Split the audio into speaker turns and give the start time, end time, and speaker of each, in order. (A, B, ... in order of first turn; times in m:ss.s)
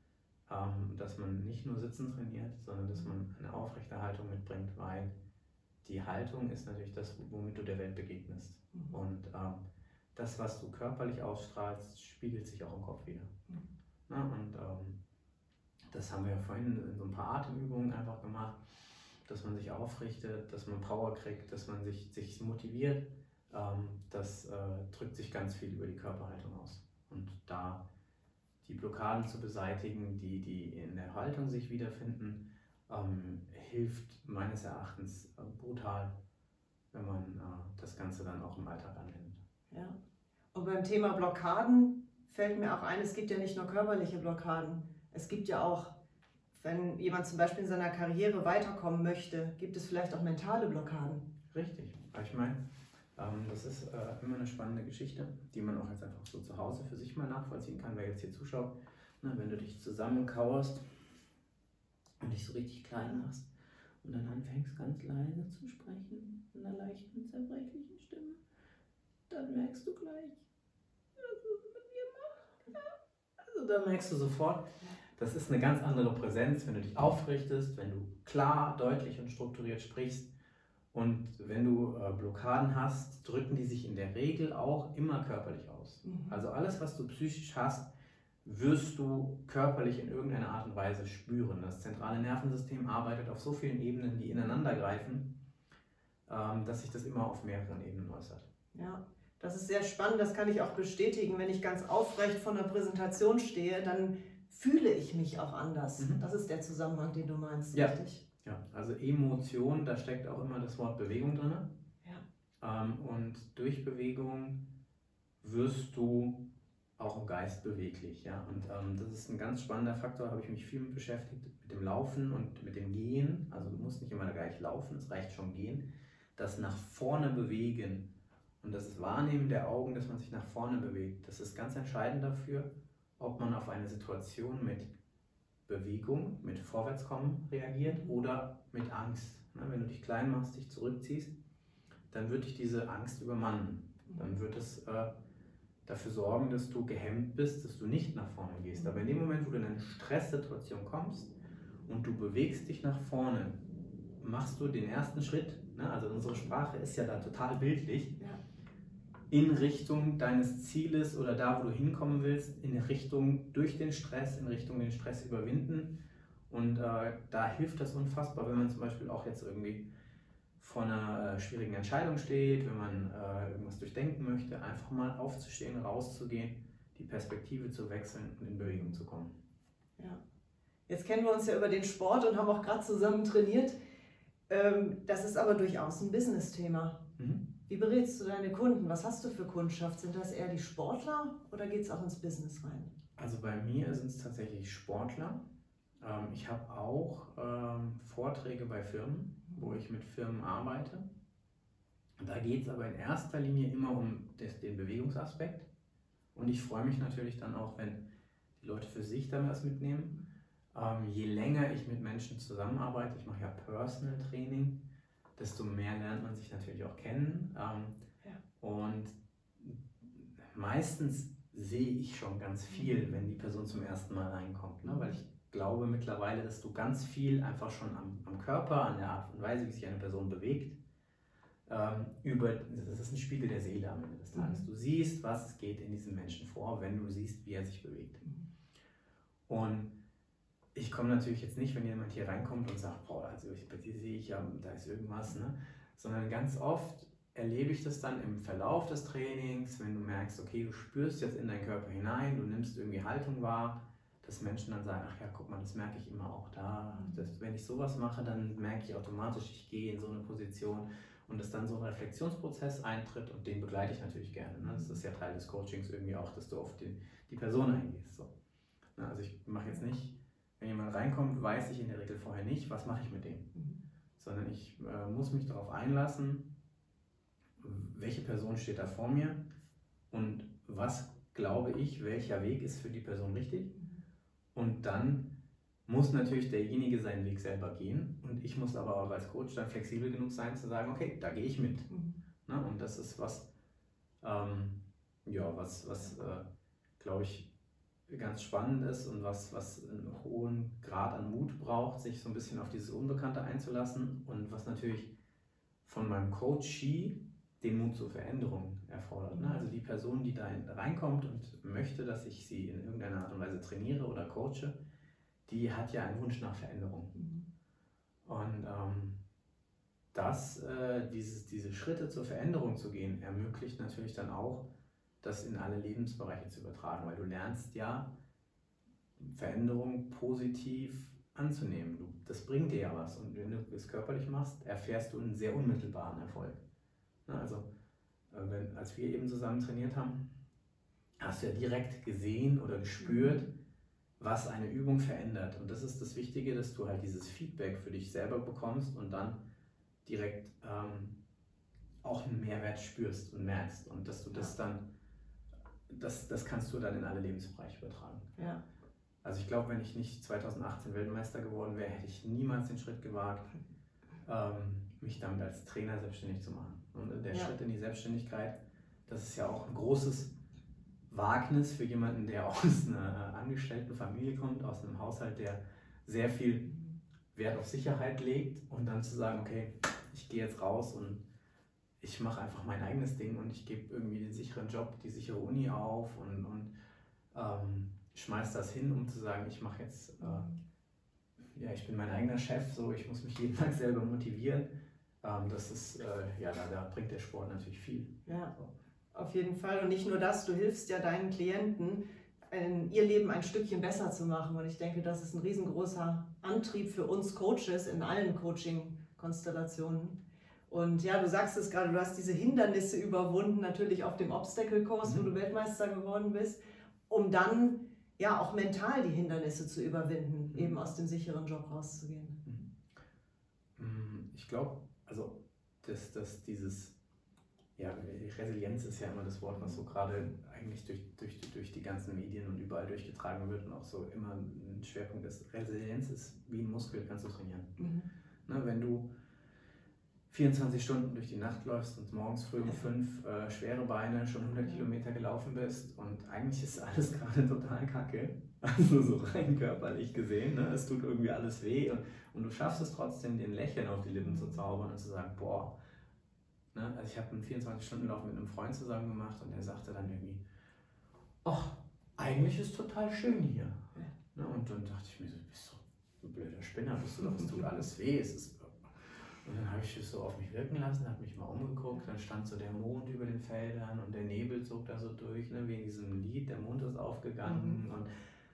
0:00.5-0:05.1 A
0:05.8-0:09.6 A
0:10.1-0:13.3 A
0:14.1-0:15.0 A
0:15.9-0:18.6 A
0:19.2-0:27.8 A
0:28.6-0:36.2 A
0:36.9-0:39.4 A
0:39.7-0:40.0 B
0:40.5-0:46.0 B
0:46.5-0:51.3 B
0:51.5-0:52.6 A
0:53.1-1:00.9 A
1:02.2-1:03.5 A
1:04.0-1:08.4 A
1:09.3-1:10.4 A
1:11.2-1:12.8 A
1:13.4-1:20.3 A
1:20.9-1:27.9 A
1:26.0-1:26.4 B
1:28.4-1:35.4 A
1:36.3-1:38.5 A
1:38.7-1:48.2 B
1:47.7-1:51.7 A
1:52.6-1:54.7 A
1:55.4-1:56.5 A
1:57.0-2:08.1 A
2:08.6-2:14.9 A
2:15.7-2:21.3 A
2:22.1-2:25.1 A
2:25.8-2:31.3 A
2:31.8-2:33.6 A
2:34.2-2:38.2 A
2:39.3-2:46.0 A
2:46.5-2:49.9 A
2:50.6-2:59.3 A
3:00.9-3:03.8 B
3:04.5-3:07.0 B
3:07.2-3:07.5 A
3:07.7-3:12.9 B
3:13.2-3:15.4 A
3:16.0-3:21.1 A
3:22.2-3:25.7 A
3:26.3-3:28.0 A
3:28.6-3:30.2 A
3:30.7-3:34.8 A
3:35.4-3:38.0 A
3:38.6-3:50.8 A
3:51.6-3:58.2 A
3:54.4-3:54.6 B
3:59.5-4:00.0 A
4:00.7-4:28.3 A
4:16.9-4:17.2 B
4:24.6-4:25.0 B
4:29.0-4:33.5 A
4:34.2-4:36.5 A
4:37.6-4:39.4 A
4:40.1-4:43.7 A
4:44.5-4:45.3 A
4:45.8-4:51.9 A
4:51.9-4:52.2 B
4:52.4-4:53.5 A
4:54.2-4:56.5 A
4:57.0-4:57.5 A
4:58.1-5:05.1 A
5:05.8-5:14.8 A
5:09.3-5:09.6 B
5:15.5-5:17.1 A
5:17.1-5:17.4 B
5:18.2-5:19.2 A
5:20.1-5:24.7 A
5:25.2-5:28.1 A
5:29.2-5:36.6 A
5:37.2-5:37.7 A
5:38.3-5:40.3 A
5:41.2-5:43.5 A
5:43.0-5:43.4 B
5:44.2-5:49.4 A
5:50.0-5:51.2 A
5:52.0-5:54.8 A
5:55.9-5:58.3 A
5:59.2-6:03.5 A
6:04.2-6:10.3 A
6:11.1-6:16.7 A
6:17.3-6:21.2 A
6:22.0-6:26.7 A
6:27.3-6:30.5 A
6:30.2-6:30.6 B
6:31.5-6:34.7 A
6:35.2-6:38.7 A
6:38.3-6:38.5 B
6:39.1-7:02.4 B
7:02.4-7:02.7 A
7:03.8-7:06.9 A
7:07.8-7:17.8 A
7:17.8-7:18.1 B
7:18.4-7:19.1 A
7:20.3-7:35.8 A
7:34.2-7:34.6 B
7:36.7-7:40.4 A
7:41.4-7:58.1 A
7:57.4-7:57.8 B